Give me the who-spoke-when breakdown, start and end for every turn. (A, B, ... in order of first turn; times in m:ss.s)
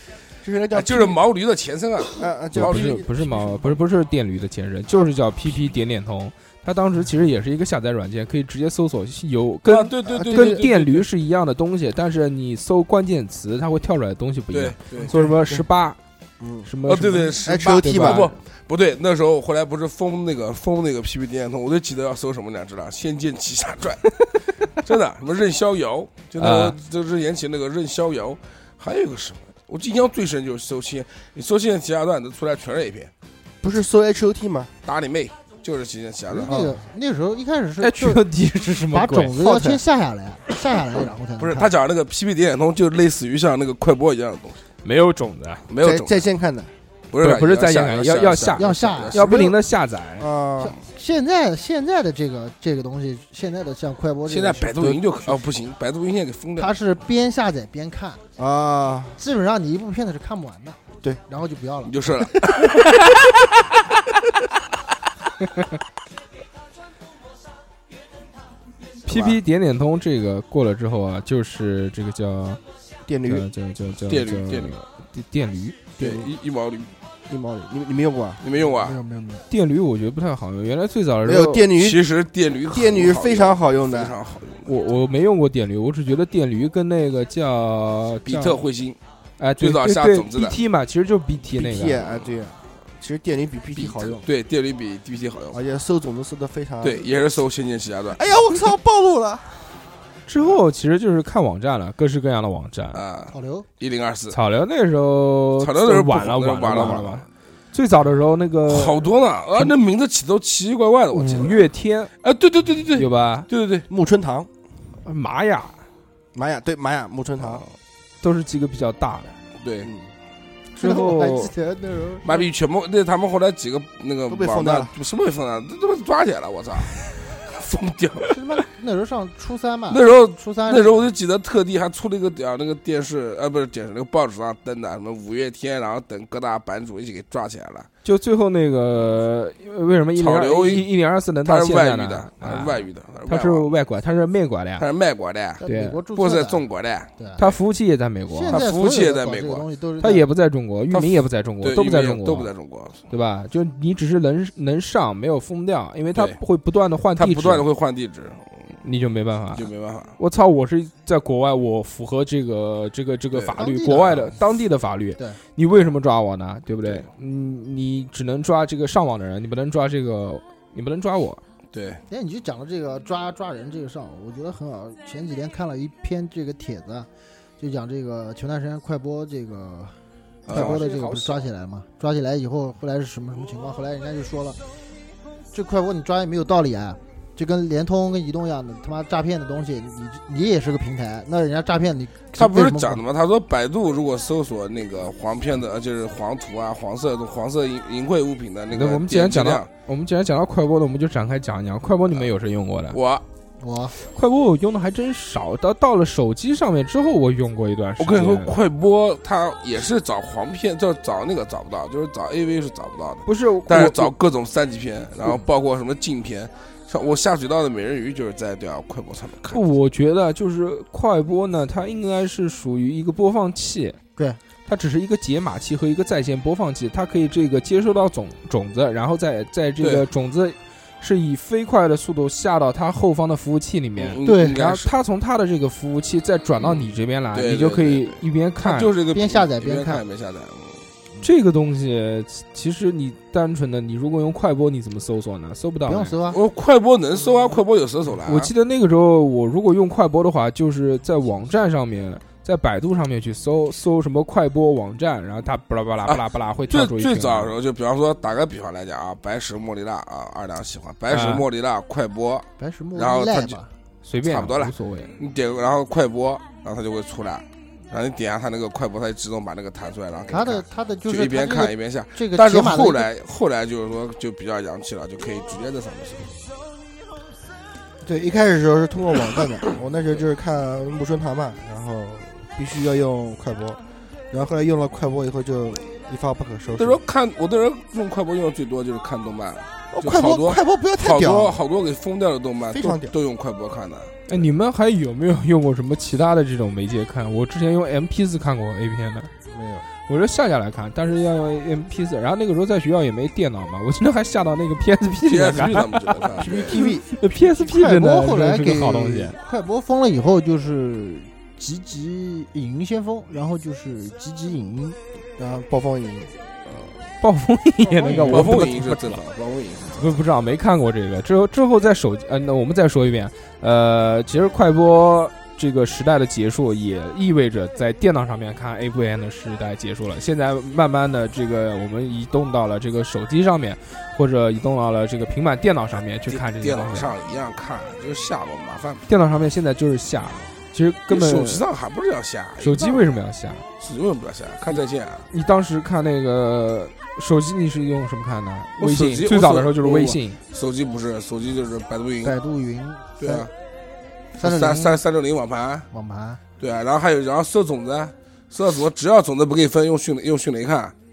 0:00.4-0:01.2 A
0:00.7-0:02.9 B
0:02.1-0:03.8 A
0:02.5-0:16.0 C
0:09.6-0:11.1 B
0:10.1-0:10.6 A
0:14.5-0:15.1 B
0:15.0-0:15.6 A
0:16.4-0:16.7 A
0:16.6-0:18.3 C
0:16.9-0:24.1 B
0:17.4-0:18.3 A
0:24.7-0:33.1 B
0:26.4-0:26.8 C
0:33.6-0:34.7 A
0:34.8-0:36.7 B
0:36.3-0:36.8 A
0:36.4-0:38.2 D
0:37.8-0:39.7 C
0:38.9-0:41.7 D
0:41.4-0:44.6 B
0:44.8-0:45.7 C
0:45.7-0:46.2 B
0:45.8-0:46.7 A
0:47.1-0:49.3 B
0:47.2-0:50.3 C
0:48.6-0:49.4 D
0:50.2-0:50.8 A
0:50.6-0:55.0 D
0:54.2-0:56.7 B
0:56.6-0:58.2 D
0:58.4-0:59.2 A
0:59.2-1:02.3 D
1:01.8-1:02.7 B
1:09.0-1:12.6 C
1:13.1-1:13.5 A
1:13.2-1:15.8 C
1:14.1-1:14.8 B
1:16.0-1:16.9 B
1:16.0-1:16.3 A
1:17.3-1:18.4 A
1:18.4-1:19.0 B
1:18.8-1:19.4 D
1:19.5-1:21.7 C
1:21.2-1:22.0 A
1:21.8-1:24.7 B
1:22.7-1:24.2 A
1:24.6-1:28.6 C
1:28.2-1:29.0 B
1:29.4-1:32.0 C
1:29.6-1:30.6 B
1:31.5-1:34.2 A
1:32.0-1:32.3 B
1:33.8-1:35.6 B
1:35.5-1:37.1 A
1:36.8-1:38.2 B
1:38.1-1:39.6 A
1:40.3-1:43.0 C
1:42.9-1:44.4 B
1:43.3-1:43.6 D
1:44.3-1:49.7 C
1:45.6-1:47.2 B
1:48.6-1:51.6 B
1:51.1-1:52.1 C
1:52.2-1:53.9 B
1:52.9-1:53.5 C
1:53.9-1:54.5 A
1:55.0-1:55.7 C
1:56.3-1:57.6 A
1:57.4-1:57.7 B
1:58.2-1:59.3 C
1:59.6-1:59.9 B
1:59.8-2:00.1 A
2:00.8-2:02.4 D
2:00.8-2:01.5 C
2:02.2-2:08.4 B
2:04.3-2:04.9 A
2:08.3-2:11.1 D
2:09.9-2:17.9 B
2:18.0-2:24.8 C
2:20.2-2:20.9 B
2:21.4-2:23.7 B
2:24.8-2:25.6 B
2:25.6-2:26.6 D
2:25.6-2:26.0 C
2:26.1-2:27.5 B
2:27.4-2:28.6 C
2:28.3-2:30.2 D
2:28.5-2:29.7 B
2:30.0-2:32.5 C
2:30.9-2:33.0 B
2:33.1-2:37.6 C
2:37.2-2:38.8 B
2:38.8-2:39.7 C
2:39.5-2:40.2 B
2:40.2-2:51.4 C
2:43.3-2:44.2 B
2:43.6-2:44.3 D
2:51.7-2:52.0 B
2:52.1-2:57.1 D
2:57.6-2:59.9 D
3:00.5-3:00.8 B
3:00.5-3:04.6 D
3:00.5-3:01.5 C
3:05.5-3:13.0 D
3:12.4-3:19.7 B
3:18.7-3:23.0 C
3:22.9-3:23.2 B
3:23.6-3:23.9 D
3:24.0-3:28.5 C
3:28.0-3:39.6 B
3:33.2-3:34.1 C
3:39.5-3:44.0 C
3:44.6-3:58.9 C
3:54.0-3:54.9 B
3:54.2-3:54.6 D
3:56.6-4:00.8 B
3:59.1-4:00.0 D
4:01.2-4:06.2 C
4:05.9-4:06.4 D
4:06.3-4:08.5 B
4:08.2-4:17.5 C
4:16.1-4:23.6 B
4:21.1-4:21.4 C
4:22.6-4:23.7 D
4:24.0-4:25.1 C
4:24.2-4:36.3 B
4:30.3-4:33.1 D
4:38.0-4:43.8 A
4:44.3-4:47.0 A
4:46.8-4:54.2 B
4:49.9-4:51.6 A
4:52.7-4:53.1 A
4:54.3-4:59.3 C
4:59.5-4:59.8 A
5:00.1-5:06.2 C
5:05.2-5:06.8 B
5:06.4-5:07.1 A
5:06.8-5:09.4 C
5:06.8-5:15.0 D
5:15.4-5:16.3 A
5:16.6-5:16.9 B
5:17.2-5:19.2 C
5:17.8-5:18.7 D
5:18.2-5:20.0 B
5:19.9-5:37.1 C
5:36.3-5:39.0 B
5:39.1-5:41.6 C
5:41.1-5:43.0 B
5:42.6-5:43.6 C
5:43.8-5:45.3 B
5:45.3-5:50.4 C
5:48.8-5:52.4 B
5:52.2-5:53.5 D
5:53.2-5:53.5 B
5:54.4-5:55.0 D
5:54.4-5:55.9 B
5:55.9-5:56.4 D
5:56.6-6:00.9 B